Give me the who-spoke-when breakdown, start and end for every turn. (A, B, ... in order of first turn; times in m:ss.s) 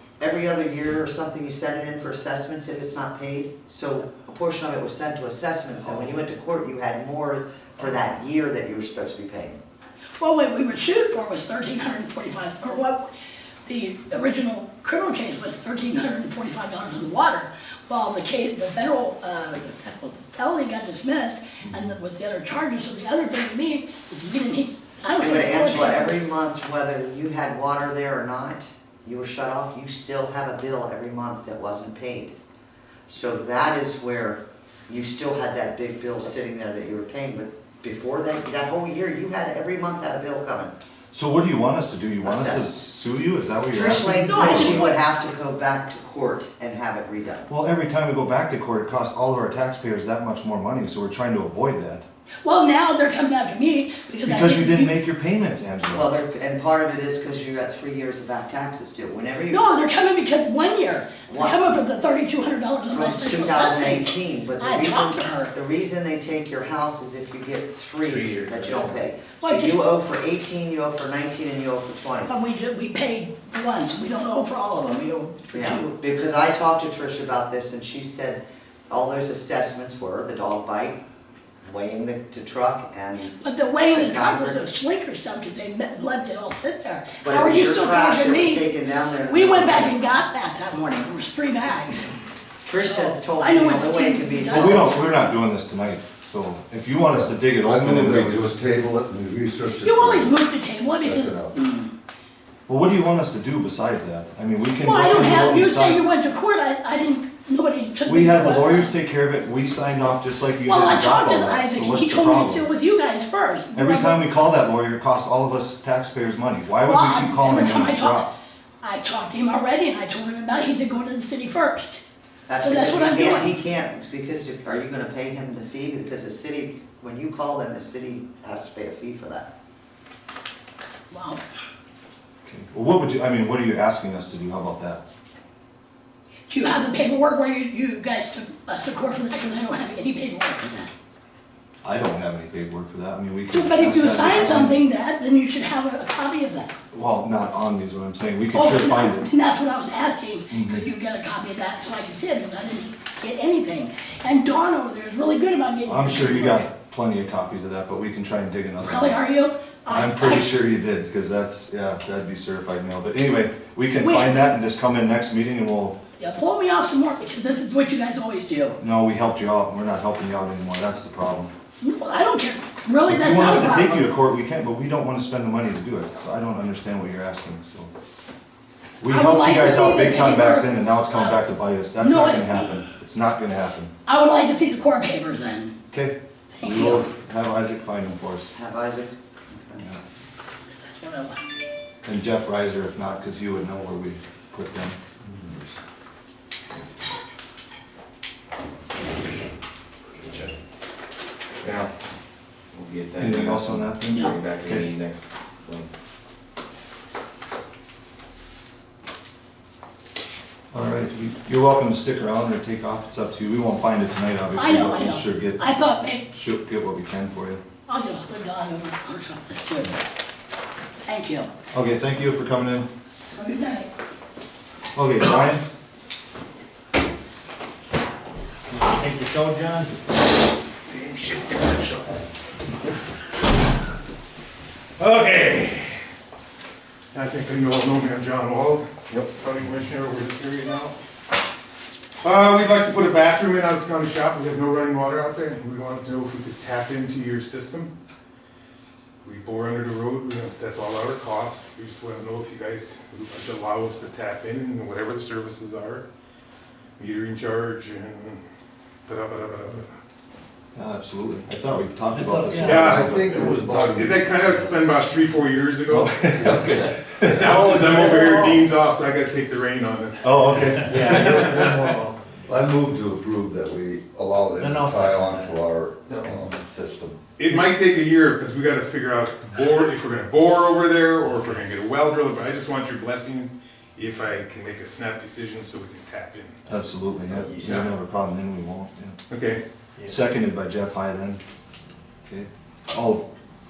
0:00.2-0:09.6 A
0:10.2-0:13.1 B
0:13.6-0:26.2 B
0:21.6-0:21.9 C
0:25.2-0:32.4 A
0:33.1-0:40.7 A
0:41.1-0:44.9 C
0:42.2-0:42.7 A
0:43.7-0:47.5 A
0:44.2-0:44.9 B
0:47.5-0:52.0 C
0:52.4-0:54.9 B
0:54.2-0:56.1 C
0:55.9-0:59.6 A
0:59.5-1:05.5 B
1:01.3-1:01.8 A
1:02.9-1:12.3 A
1:09.4-1:09.9 B
1:12.2-1:15.9 B
1:15.5-1:21.0 A
1:21.6-1:24.7 A
1:23.4-1:28.7 B
1:27.2-1:30.0 A
1:29.3-1:32.1 B
1:32.6-1:35.0 A
1:32.8-1:35.0 B
1:34.5-1:38.5 C
1:37.1-1:40.4 D
1:39.8-1:41.9 B
1:41.0-1:41.6 D
1:42.7-1:46.0 C
1:44.8-1:48.9 B
1:48.0-1:52.7 C
1:50.6-1:54.2 B
1:53.7-1:58.3 C
1:56.8-1:58.3 B
1:58.8-2:02.0 B
2:02.5-2:09.5 A
2:02.6-2:03.5 B
2:11.1-2:11.4 B
2:12.4-2:15.0 C
2:16.5-2:20.9 B
2:21.8-2:24.8 C
2:23.5-2:26.7 B
2:26.9-2:29.3 C
2:28.5-2:36.6 B
2:30.5-2:30.8 C
2:35.9-2:39.2 C
2:38.8-2:40.6 B
2:39.9-2:46.0 C
2:44.0-2:44.4 B
2:46.2-2:48.8 B
2:48.8-2:51.5 C
2:51.8-2:54.1 B
2:53.1-2:57.9 C
2:59.0-3:03.9 C
2:59.1-3:01.4 B
3:02.0-3:02.8 B
3:04.0-3:05.7 B
3:05.9-3:08.5 C
3:06.5-3:07.0 B
3:08.5-3:09.8 A
3:10.7-3:11.4 B
3:12.0-3:15.0 C
3:22.7-3:25.9 E
3:23.2-3:24.9 C
3:30.7-3:37.6 C
3:34.5-3:36.2 B
3:37.9-3:40.0 B
3:41.0-3:41.5 B
3:41.7-3:42.9 C
3:43.4-3:43.9 B
3:44.9-3:45.6 C
3:48.7-3:49.9 F
3:50.8-3:52.1 G
3:55.0-3:55.8 G
3:57.1-4:00.9 G
4:02.2-4:07.9 G
4:09.2-4:16.0 G
4:17.0-4:18.4 G
4:19.1-4:19.8 G
4:20.7-4:23.7 C
4:22.1-4:23.4 F
4:22.6-4:23.0 G
4:22.6-4:24.8 D
4:23.7-4:26.5 G
4:25.9-4:28.6 C
4:26.4-4:26.7 D
4:27.4-4:31.8 G
4:27.5-4:28.6 F
4:30.2-4:32.0 C
4:30.6-4:32.2 F
4:30.9-4:31.7 D
4:32.5-4:37.2 D
4:34.6-4:35.6 F
4:36.2-4:36.5 F
4:37.4-4:46.5 G
4:46.7-4:49.2 C
4:47.4-4:47.8 F
4:47.6-4:47.9 G
4:49.3-4:49.6 G
4:50.0-4:51.4 C
4:52.3-4:53.2 C